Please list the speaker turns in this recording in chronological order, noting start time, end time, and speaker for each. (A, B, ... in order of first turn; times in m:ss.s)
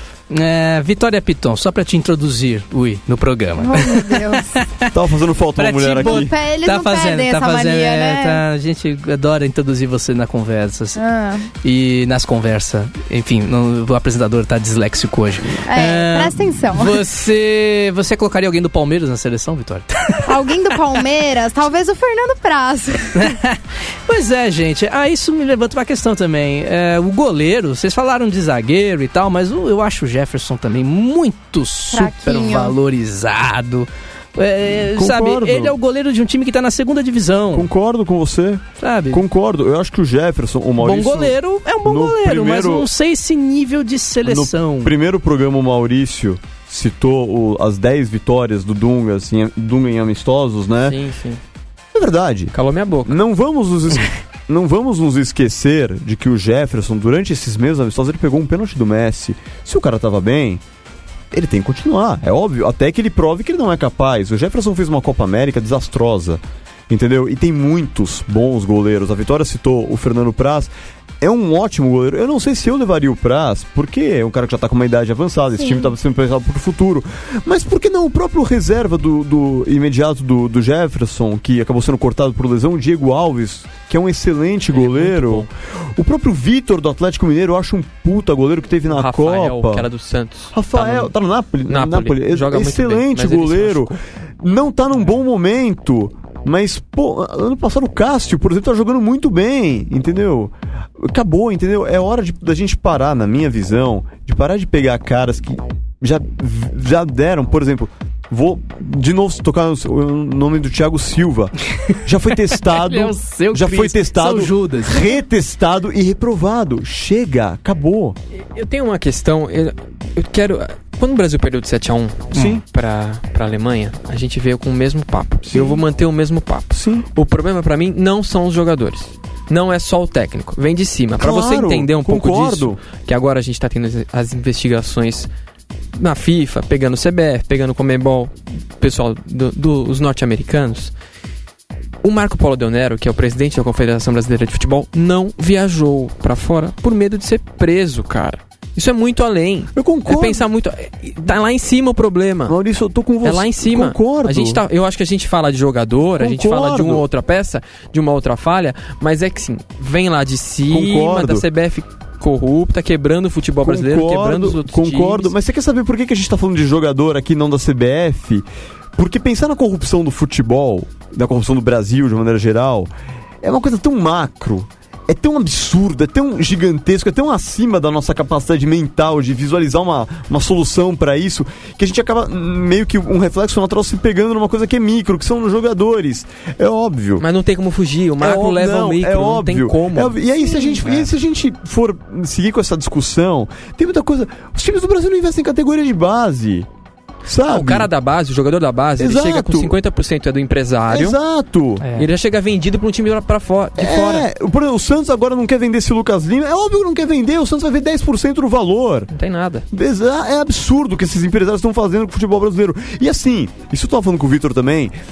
0:00.3-0:04.9 A
0:03.6-0:04.6 B
0:04.9-0:06.3 C
0:05.6-0:11.0 A
0:06.0-0:08.4 B
0:11.0-0:11.5 B
0:11.6-0:20.7 A
0:15.6-0:17.0 B
0:20.2-0:23.4 B
0:23.2-0:37.7 A
0:31.9-0:32.8 B
0:34.8-0:35.8 C
0:37.5-0:42.9 C
0:38.8-0:39.2 A
0:40.8-0:44.9 A
0:44.2-0:51.0 C
0:50.8-0:51.4 D
0:51.9-0:52.5 C
0:52.5-0:53.2 D
0:53.1-1:00.6 C
1:01.3-1:29.9 C
1:15.6-1:15.9 B
1:24.7-1:25.5 D
1:28.9-1:31.1 D
1:30.5-1:58.2 C
1:31.7-1:34.0 D
1:52.5-1:55.1 A
1:58.6-2:15.3 D
2:02.3-2:02.6 C
2:05.5-2:05.8 C
2:06.7-2:07.1 C
2:11.2-2:12.8 C
2:16.0-2:20.9 D
2:22.0-2:32.6 D
2:29.8-2:30.4 C
2:32.5-2:34.6 C
2:33.2-2:45.3 D
2:36.2-2:37.0 C
2:40.7-2:41.4 C
2:43.6-2:52.9 C
2:53.4-3:07.2 C
3:07.2-3:10.2 D
3:08.2-3:16.7 C
3:17.3-3:17.9 C
3:17.4-3:21.2 D
3:19.0-3:19.8 C
3:20.9-3:21.9 C
3:21.8-3:22.1 A
3:22.0-3:24.3 D
3:23.8-3:29.1 C
3:29.1-3:29.6 D
3:29.7-3:34.9 C